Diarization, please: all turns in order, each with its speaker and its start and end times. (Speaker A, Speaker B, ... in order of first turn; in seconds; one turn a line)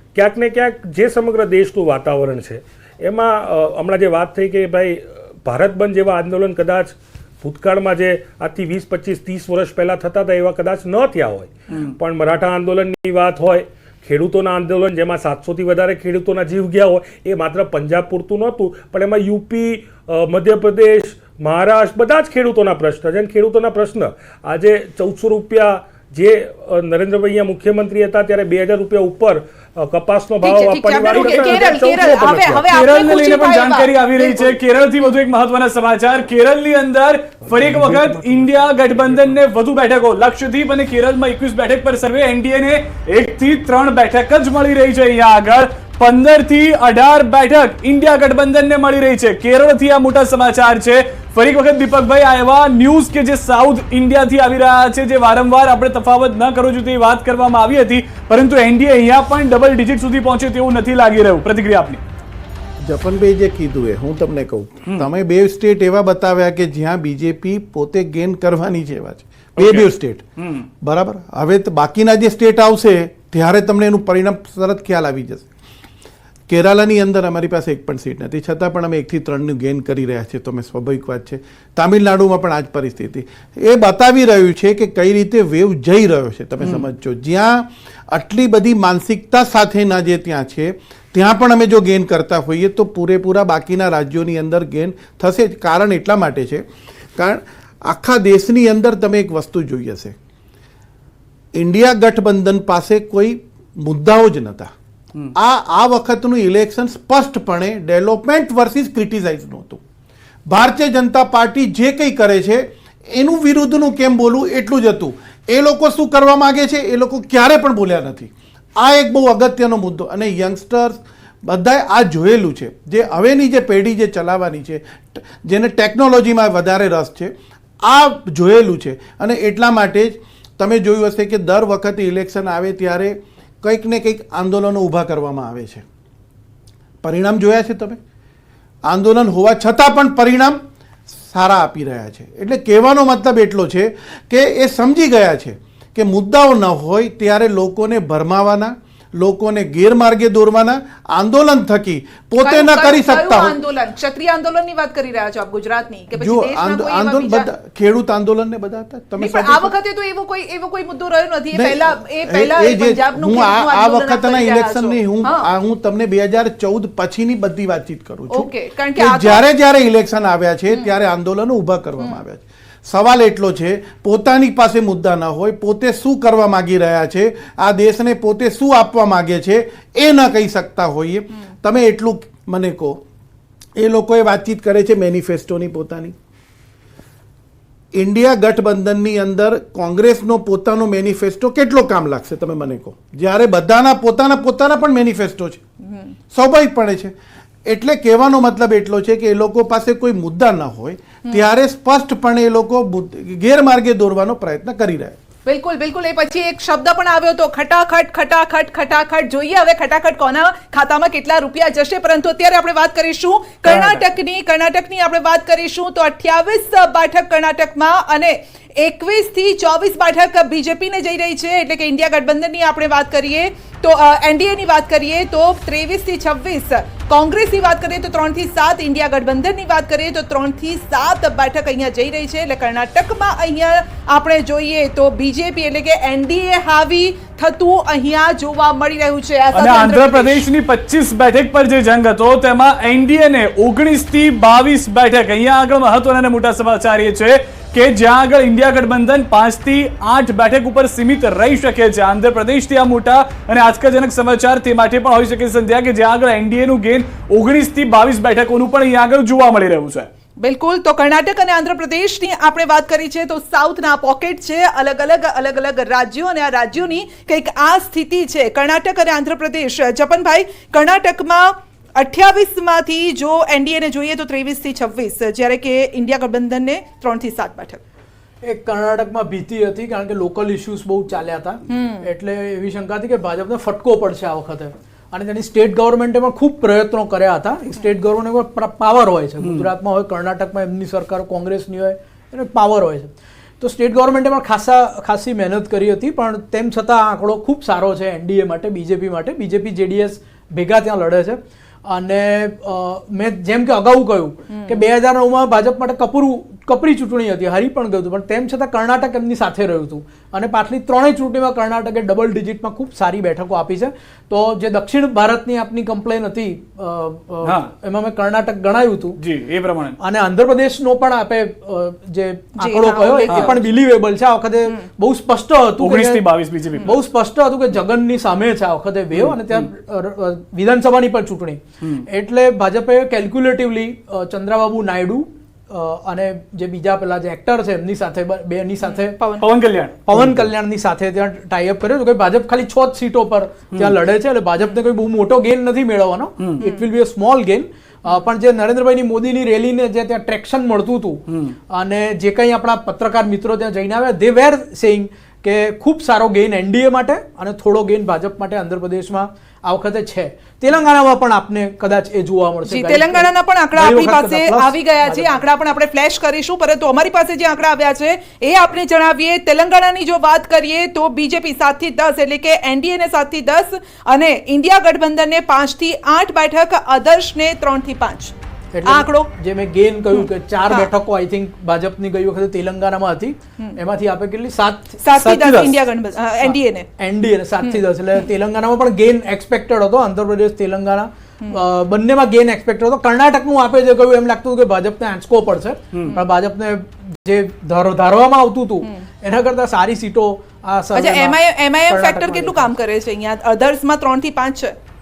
Speaker A: 0.1-32.7
Speaker B: 30.4-34.6
Speaker C: 32.7-62.0
Speaker A: 37.5-39.3
Speaker D: 62.8-70.2
Speaker C: 69.6-69.9
Speaker C: 70.4-70.7
Speaker D: 70.8-75.5
Speaker D: 76.5-96.6
Speaker D: 97.2-100.1
Speaker D: 101.5-104.7
Speaker D: 105.3-109.8
Speaker D: 110.5-127.3
Speaker D: 127.8-135.8
Speaker D: 137.0-138.0
Speaker D: 138.9-140.6
Speaker D: 141.1-153.6
Speaker B: 152.4-157.5
Speaker D: 156.2-159.7
Speaker B: 159.2-165.5
Speaker D: 161.5-183.0
Speaker B: 168.3-169.4
Speaker D: 183.8-186.1
Speaker D: 187.9-195.6
Speaker B: 195.8-196.1
Speaker D: 196.3-197.1
Speaker D: 197.7-205.2
Speaker B: 205.4-240.4
Speaker C: 213.7-214.0
Speaker C: 239.5-260.1
Speaker B: 260.4-277.8
Speaker E: 278.4-319.2
Speaker B: 281.7-282.1
Speaker C: 289.4-289.7
Speaker B: 304.5-304.8
Speaker C: 317.4-317.7
Speaker C: 319.2-319.9
Speaker E: 320.0-326.2
Speaker B: 322.6-323.8
Speaker C: 323.3-323.5
Speaker C: 325.8-327.0
Speaker E: 326.8-339.2
Speaker C: 329.1-329.7
Speaker B: 338.8-339.5
Speaker C: 339.4-340.5
Speaker E: 340.1-365.4
Speaker B: 346.6-346.9
Speaker C: 351.3-351.5
Speaker B: 362.6-378.3
Speaker E: 378.7-385.8
Speaker B: 378.8-379.3
Speaker B: 385.0-386.9
Speaker C: 385.2-385.6
Speaker E: 386.4-402.7
Speaker B: 387.6-388.3
Speaker C: 395.9-396.2
Speaker B: 400.9-404.7